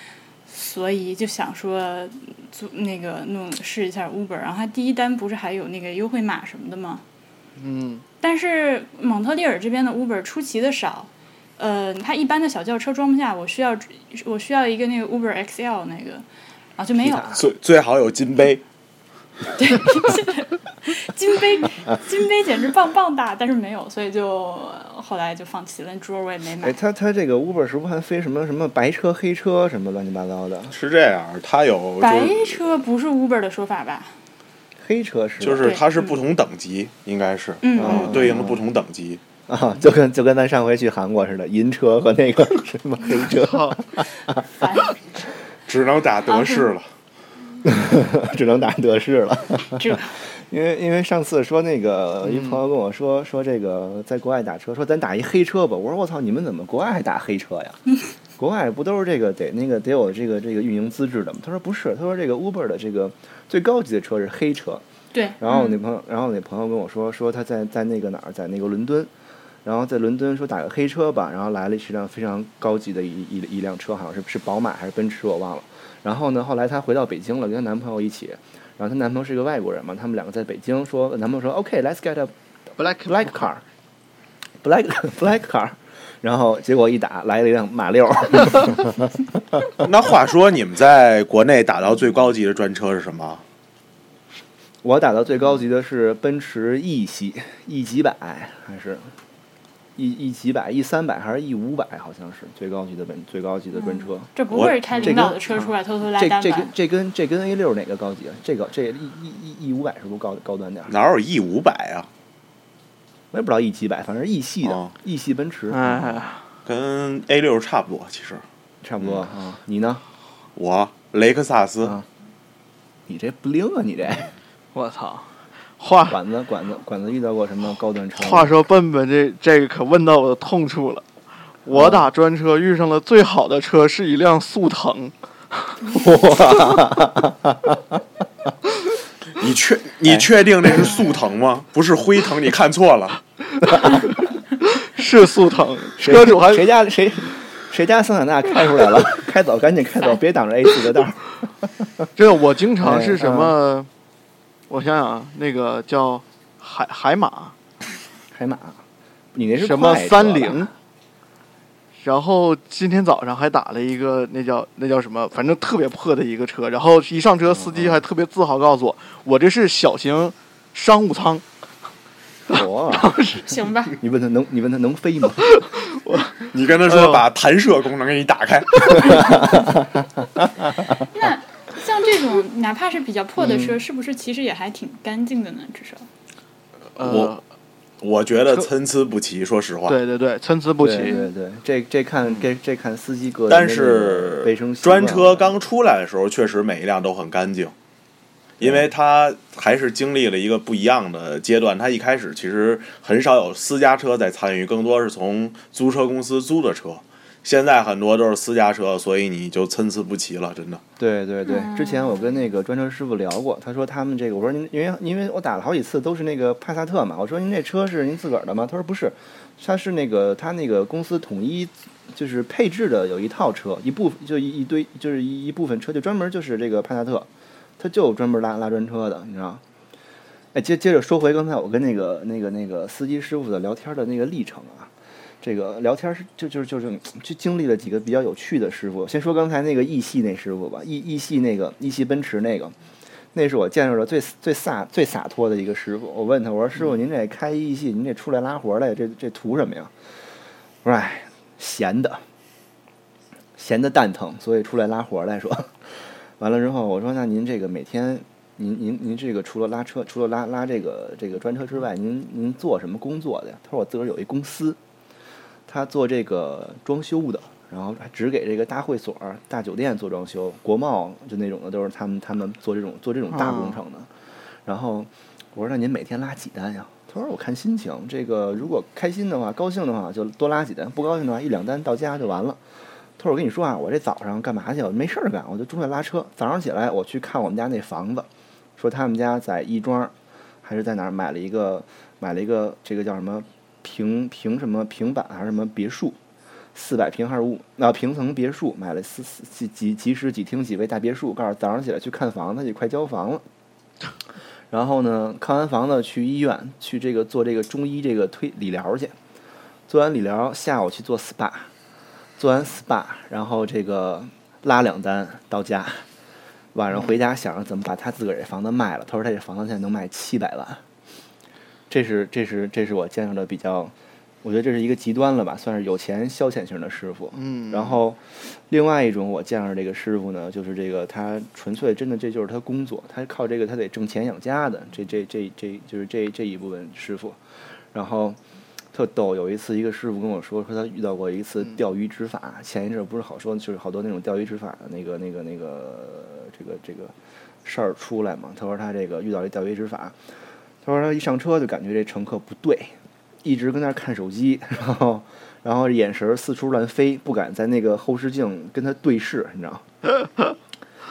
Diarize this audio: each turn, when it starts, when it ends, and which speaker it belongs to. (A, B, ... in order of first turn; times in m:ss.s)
0:00.5-0:07.0 A
0:07.6-0:08.0 B
0:08.2-0:16.2 A
0:16.8-0:17.4 A
0:17.0-0:17.4 C
0:17.3-0:18.6 D
0:19.6-0:26.8 A
0:26.6-0:30.7 C
0:30.7-0:32.7 D
0:32.0-0:34.1 A
0:34.8-0:35.8 C
0:35.4-0:39.2 D
0:35.6-0:36.1 A
0:37.6-0:38.2 A
0:37.8-0:38.6 C
0:39.5-0:44.4 C
0:43.3-0:43.8 B
0:44.4-0:45.0 A
0:45.7-0:46.8 D
0:46.3-0:46.7 A
0:47.6-0:57.8 C
0:49.8-0:50.2 A
0:52.2-0:52.6 B
0:58.4-1:04.8 C
1:05.1-1:05.8 A
1:05.4-1:09.1 C
1:09.6-1:22.3 C
1:22.8-1:23.2 B
1:22.9-1:23.6 C
1:24.6-1:29.7 C
1:29.8-1:33.4 D
1:34.8-1:39.1 C
1:40.0-1:44.3 C
1:43.7-1:46.7 A
1:44.9-1:45.4 C
1:46.1-1:50.9 C
1:50.9-1:52.1 D
1:53.3-1:56.2 C
1:54.6-1:54.9 D
1:55.7-1:56.4 B
1:56.6-1:58.4 D
1:58.8-2:00.0 C
2:00.6-2:02.0 D
2:01.8-2:02.1 C
2:03.1-2:04.3 C
2:04.7-2:06.2 B
2:06.1-2:08.5 C
2:08.2-2:11.0 B
2:11.6-2:15.9 B
2:11.7-2:12.1 C
2:15.9-2:18.0 C
2:19.4-2:23.2 D
2:20.0-2:20.3 C
2:23.8-2:24.1 B
2:24.6-2:26.7 B
2:26.0-2:32.1 C
2:32.2-2:33.9 B
2:32.8-2:33.6 C
2:34.7-2:37.5 B
2:38.3-2:38.8 C
2:39.3-2:40.7 C
2:39.6-2:40.7 B
2:42.0-2:51.4 B
2:47.5-2:48.0 C
2:52.5-2:53.3 C
2:52.5-2:53.4 B
2:53.4-2:54.0 A
2:53.9-2:55.5 C
2:55.5-2:57.2 B
2:56.5-2:59.5 D
2:59.1-2:59.9 C
3:01.0-3:06.1 A
3:03.4-3:03.8 C
3:07.0-3:07.3 D
3:07.0-3:07.4 B
3:08.0-3:10.0 D
3:09.9-3:11.2 B
3:10.8-3:15.5 C
3:11.0-3:11.3 A
3:13.5-3:17.7 D
3:18.6-3:18.9 C
3:18.6-3:30.8 D
3:31.0-3:47.3 C
3:31.4-3:32.4 A
3:47.8-3:49.6 C
3:50.5-4:02.7 C
4:03.3-4:09.9 C
4:10.8-4:12.2 C
4:13.6-4:24.8 C
4:25.7-4:34.1 C
4:33.3-4:33.8 B
4:34.6-4:42.6 C
4:43.2-4:56.2 C
4:56.7-5:03.4 C
5:04.7-5:09.1 C
5:09.9-5:11.7 C
5:12.4-5:16.0 C
5:16.7-5:20.8 C
5:21.9-5:37.4 C
5:27.3-5:28.0 B
5:37.9-5:38.4 C
5:38.9-5:50.2 C
5:50.8-5:59.8 C